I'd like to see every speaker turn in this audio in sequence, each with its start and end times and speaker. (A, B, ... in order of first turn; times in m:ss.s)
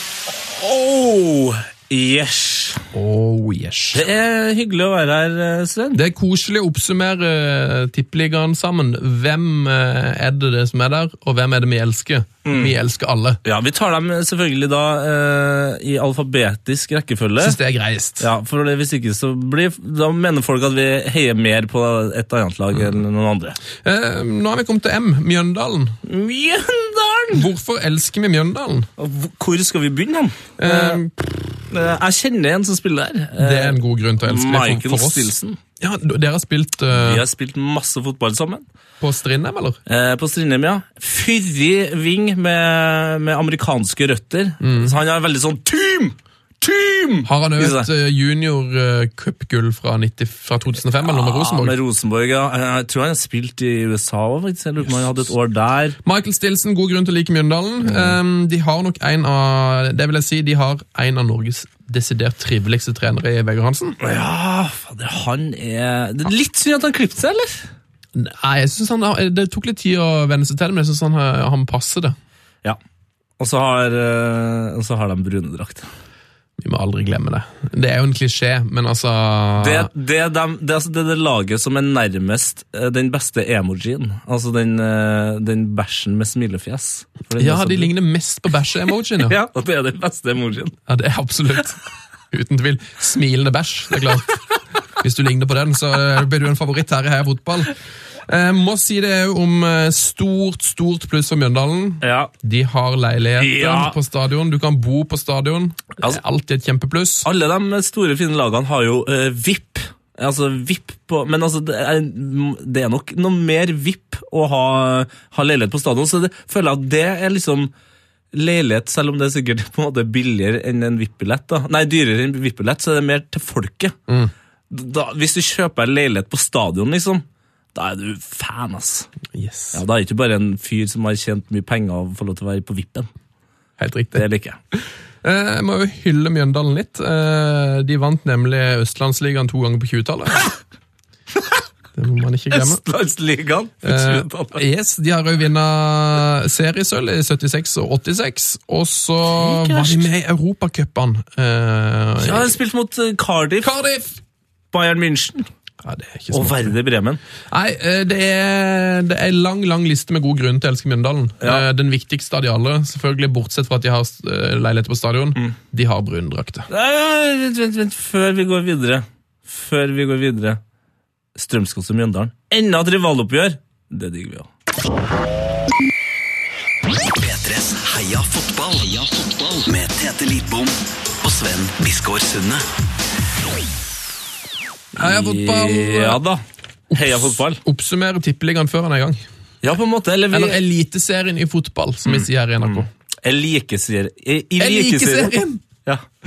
0:00.3-0:02.8 A
0:02.9-0:04.0 B
0:03.9-0:06.0 A
0:05.9-0:13.4 B
0:12.4-0:12.7 A
0:13.4-0:17.6 A
0:17.4-0:18.2 B
0:18.2-0:23.6 A
0:23.8-0:26.0 B
0:26.0-0:27.4 A
0:27.3-0:28.9 B
0:29.0-0:31.0 A
0:30.6-0:31.6 B
0:31.7-0:35.6 A
0:33.4-0:37.2 B
0:36.9-0:38.6 A
0:39.0-0:39.8 B
0:39.9-0:47.9 A
0:44.6-0:44.9 B
0:47.2-0:51.8 B
0:51.0-0:56.0 A
0:56.0-1:04.0 B
0:57.8-0:58.2 A
1:04.0-1:07.7 A
1:08.1-1:12.1 B
1:13.4-1:15.9 A
1:16.6-1:19.9 B
1:19.6-1:27.9 A
1:27.4-1:29.4 B
1:29.2-1:30.8 A
1:30.9-1:31.8 B
1:32.3-1:34.4 B
1:35.0-1:37.7 B
1:38.3-1:47.3 B
1:42.0-1:42.3 A
1:43.4-1:44.0 A
1:47.2-1:57.7 A
1:58.3-2:04.0 A
2:04.7-2:09.1 A
2:09.3-2:09.8 B
2:09.7-2:13.1 A
2:13.8-2:20.5 B
2:14.1-2:14.6 A
2:22.0-2:22.8 B
2:22.5-2:24.6 A
2:23.8-2:32.6 B
2:29.3-2:30.1 A
2:32.2-2:33.7 A
2:33.6-2:34.2 B
2:34.7-2:35.5 A
2:35.8-2:36.7 B
2:36.3-2:37.2 A
2:37.5-2:46.7 B
2:46.7-2:50.6 A
2:51.3-2:54.5 A
2:57.1-3:02.6 C
3:04.9-3:07.6 A
3:05.0-3:06.2 B
3:06.9-3:09.2 B
3:09.6-3:10.6 A
3:10.3-3:12.9 B
3:12.0-3:15.3 A
3:14.6-3:15.6 B